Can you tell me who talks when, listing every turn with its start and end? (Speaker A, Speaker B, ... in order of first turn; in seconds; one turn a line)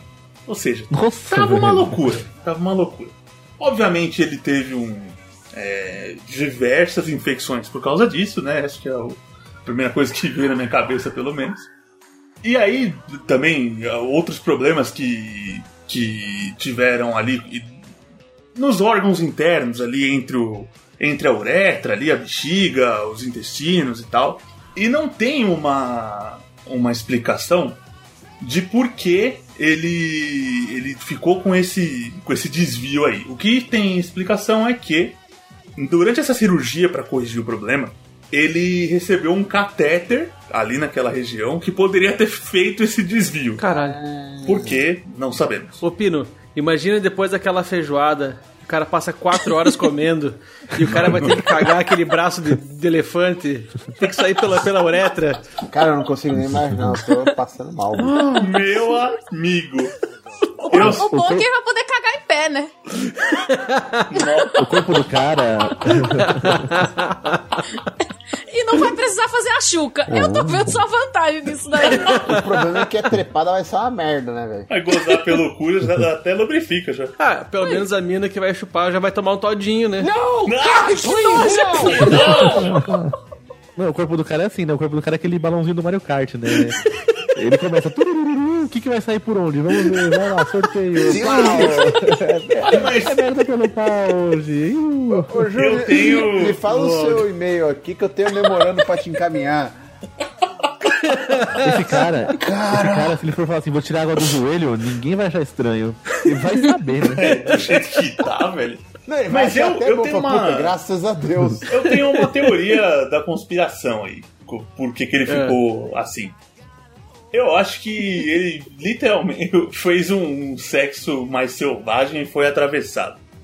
Speaker A: 0.5-11.7
Speaker B: 0.9-2.0
Speaker A: 12.4-17.7
Speaker A: 18.6-27.8
Speaker A: 28.4-35.2
Speaker A: 35.8-43.6
Speaker C: 43.6-44.0
Speaker D: 43.7-44.8
Speaker A: 44.5-45.8
Speaker C: 45.8-55.5
Speaker A: 50.9-51.4
Speaker D: 55.6-58.3
Speaker B: 56.6-57.0
Speaker C: 58.0-58.6
Speaker A: 58.4-59.9
Speaker A: 60.7-61.0
Speaker B: 60.7-61.5
Speaker E: 60.7-62.7
Speaker C: 63.0-64.3
Speaker A: 64.1-64.7
Speaker B: 64.6-66.7
Speaker C: 65.9-67.6
Speaker E: 68.5-72.2
Speaker D: 70.1-70.8
Speaker C: 72.1-72.5
Speaker D: 72.2-74.7
Speaker A: 74.7-77.2
Speaker C: 77.2-80.1
Speaker D: 80.0-82.6
Speaker A: 80.4-82.9
Speaker B: 82.5-83.1
Speaker B: 83.8-86.8
Speaker B: 87.4-95.5
Speaker D: 91.0-92.9
Speaker C: 91.2-91.6
Speaker A: 92.6-93.2
Speaker D: 95.1-99.8
Speaker A: 95.6-96.6
Speaker C: 96.7-97.3
Speaker C: 101.0-102.0
Speaker B: 101.6-107.4
Speaker D: 102.3-103.2
Speaker A: 107.1-110.7
Speaker D: 109.1-111.7
Speaker A: 111.7-116.4
Speaker C: 115.3-115.6
Speaker A: 117.3-123.2